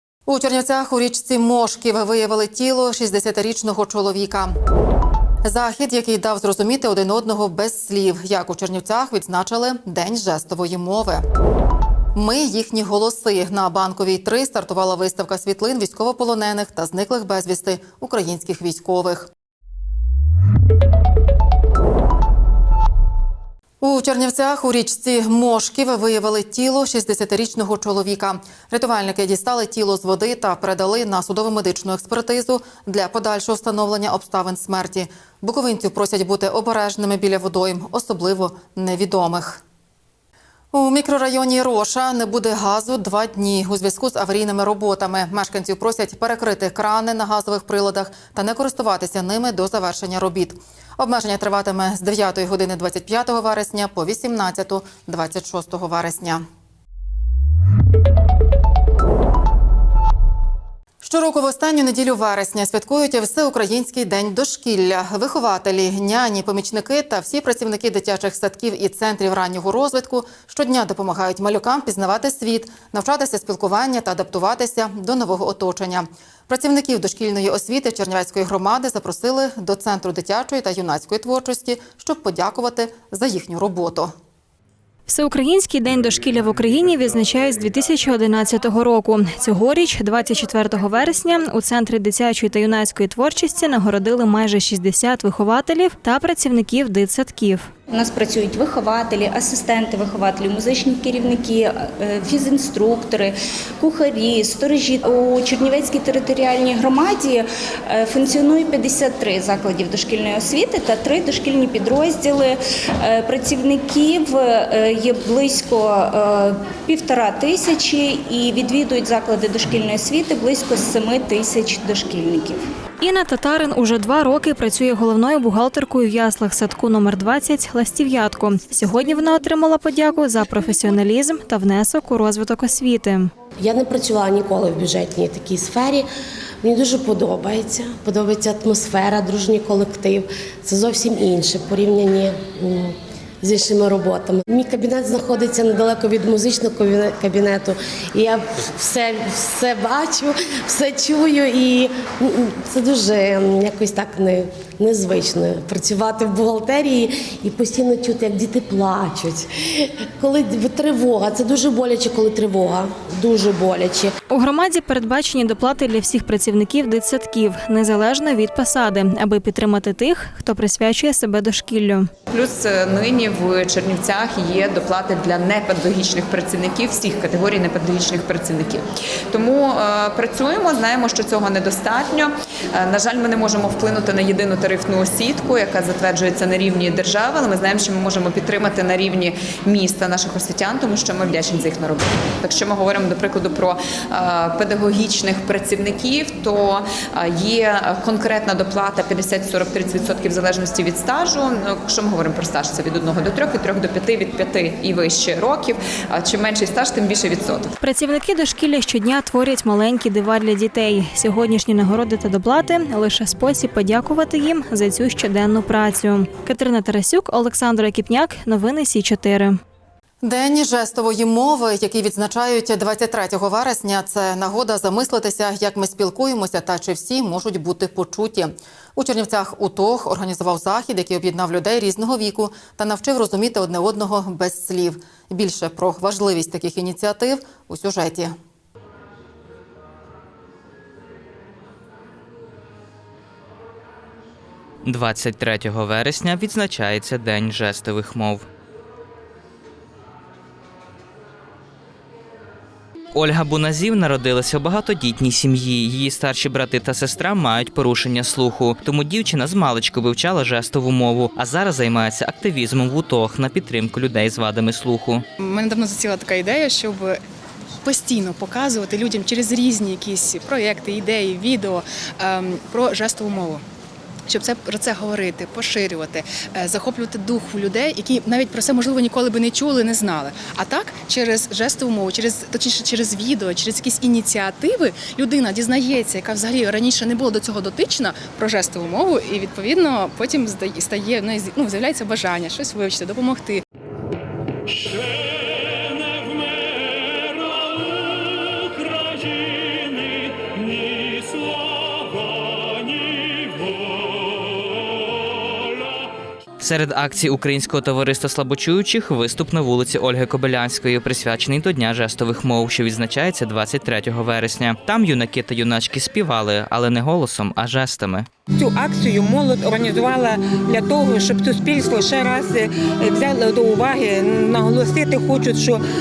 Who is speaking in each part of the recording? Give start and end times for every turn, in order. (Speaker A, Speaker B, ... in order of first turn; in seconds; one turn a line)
Speaker A: 0.3-4.5
Speaker A: 5.4-11.2
Speaker A: 12.1-19.3
Speaker A: 23.8-39.6
Speaker A: 40.7-56.4
Speaker A: 61.0-84.1
Speaker B: 85.1-97.7
Speaker C: 97.9-122.6
Speaker B: 123.0-133.3
Speaker D: 133.6-136.1
Speaker D: 136.6-164.1
Speaker B: 164.3-172.1
Speaker E: 172.3-207.7
Speaker B: 207.8-219.6
Speaker A: 220.2-238.3
Speaker F: 244.8-248.4
Speaker F: 253.1-265.2
Speaker G: 265.4-267.2
Speaker G: 267.8-273.6
Speaker G: 274.3-293.6
Speaker F: 306.6-318.3
Speaker H: 318.6-325.8